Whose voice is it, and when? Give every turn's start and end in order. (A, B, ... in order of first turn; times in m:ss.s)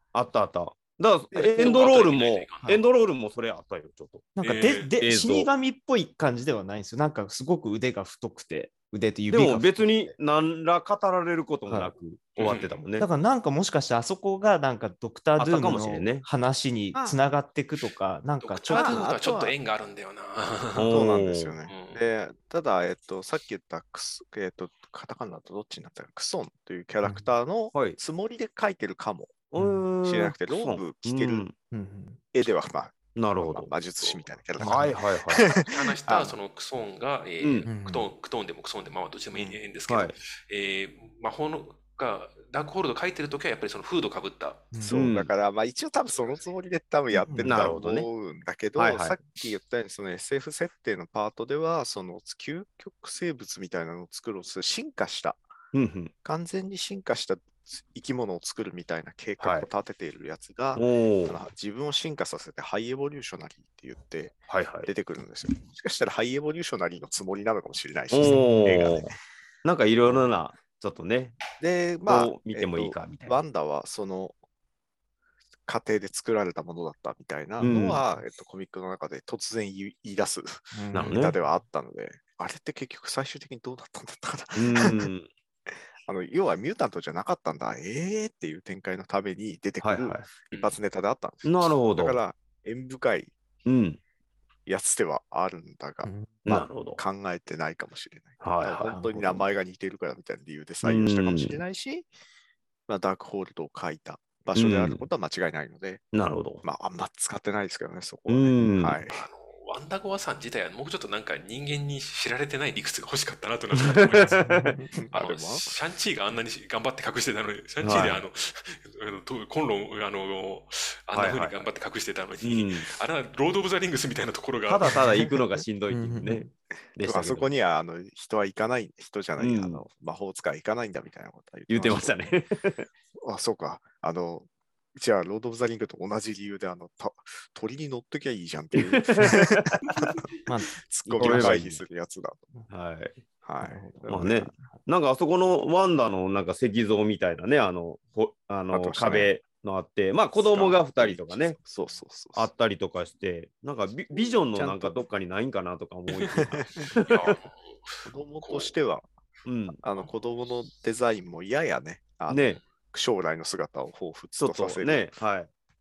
0:00.1-0:04.2 A
0:01.4-0:01.6 B
0:01.4-0:02.8 C
0:04.4-0:10.1 B
0:04.4-0:04.9 C
0:05.0-0:05.5 A
0:09.3-0:13.1 A
0:11.7-0:11.9 B
0:12.4-0:12.8 C
0:13.0-0:19.1 B
0:15.4-0:16.2 A
0:18.4-0:21.1 C
0:18.7-0:19.6 D
0:20.7-0:21.5 A
0:20.9-0:29.5 D
0:21.7-0:22.0 C
0:27.7-0:28.0 A
0:29.5-0:31.5 A
0:29.6-0:29.9 B
0:30.0-0:31.5 D
0:31.7-0:32.2 B
0:32.3-0:36.4 D
0:33.2-0:33.7 A
0:34.0-0:34.2 C
0:34.6-0:34.9 B
0:34.6-0:35.4 A
0:35.5-0:44.7 C
0:37.4-0:37.7 A
0:37.6-0:38.1 B
0:39.9-0:40.1 A
0:44.7-0:45.0 B
0:44.8-0:55.5 D
0:44.9-0:45.3 A
0:47.1-0:47.7 B
0:47.4-0:48.1 A
0:48.8-0:49.2 A
0:55.7-0:56.1 A
0:56.2-1:09.1 D
0:59.4-0:59.7 A
1:00.7-1:01.4 A
1:04.5-1:04.9 A
1:08.1-1:09.1 A
1:08.2-1:08.6 B
1:09.6-1:11.4 A
1:11.6-1:14.4 D
1:12.0-1:13.4 A
1:15.7-1:25.0 D
1:17.6-1:18.0 A
1:20.7-1:21.2 B
1:20.9-1:21.4 A
1:24.6-1:25.3 A
1:26.0-1:33.3 D
1:29.8-1:30.3 A
1:30.5-1:30.8 C
1:31.4-1:32.2 A
1:33.6-1:34.0 A
1:34.6-1:42.1 D
1:36.0-1:36.4 B
1:36.4-1:37.0 A
1:38.4-1:39.4 A
1:38.8-1:39.4 B
1:40.8-1:41.6 A
1:42.9-1:46.0 D
1:44.6-1:45.0 A
1:46.1-1:46.6 A
1:46.6-1:49.2 D
1:48.3-1:49.0 A
1:49.1-1:54.4 C
1:53.9-1:54.8 A
1:54.3-1:54.9 B
1:54.9-1:55.7 D
1:55.1-2:04.9 C
1:57.8-1:58.2 A
2:01.1-2:01.7 A
2:02.4-2:02.9 A
2:04.7-2:06.4 A
2:04.9-2:05.3 B
2:05.9-2:06.5 B
2:07.0-2:07.5 A
2:07.0-2:12.2 D
2:09.4-2:09.8 A
2:11.7-2:12.9 A
2:13.2-2:19.7 D
2:18.7-2:19.8 A
2:20.4-2:21.8 B
2:20.8-2:22.4 D
2:21.0-2:21.8 A
2:22.7-2:23.2 A
2:23.4-2:24.5 D
2:23.6-2:24.8 B
2:24.1-2:31.6 A
2:28.7-2:29.3 D
2:30.4-2:32.5 D
2:32.3-2:37.3 A
2:34.5-2:34.9 D
2:36.4-2:36.9 D
2:37.0-2:38.7 C
2:38.0-2:39.1 D
2:39.4-2:39.8 A
2:39.8-2:45.1 D
2:42.3-2:42.6 A
2:44.4-2:45.5 A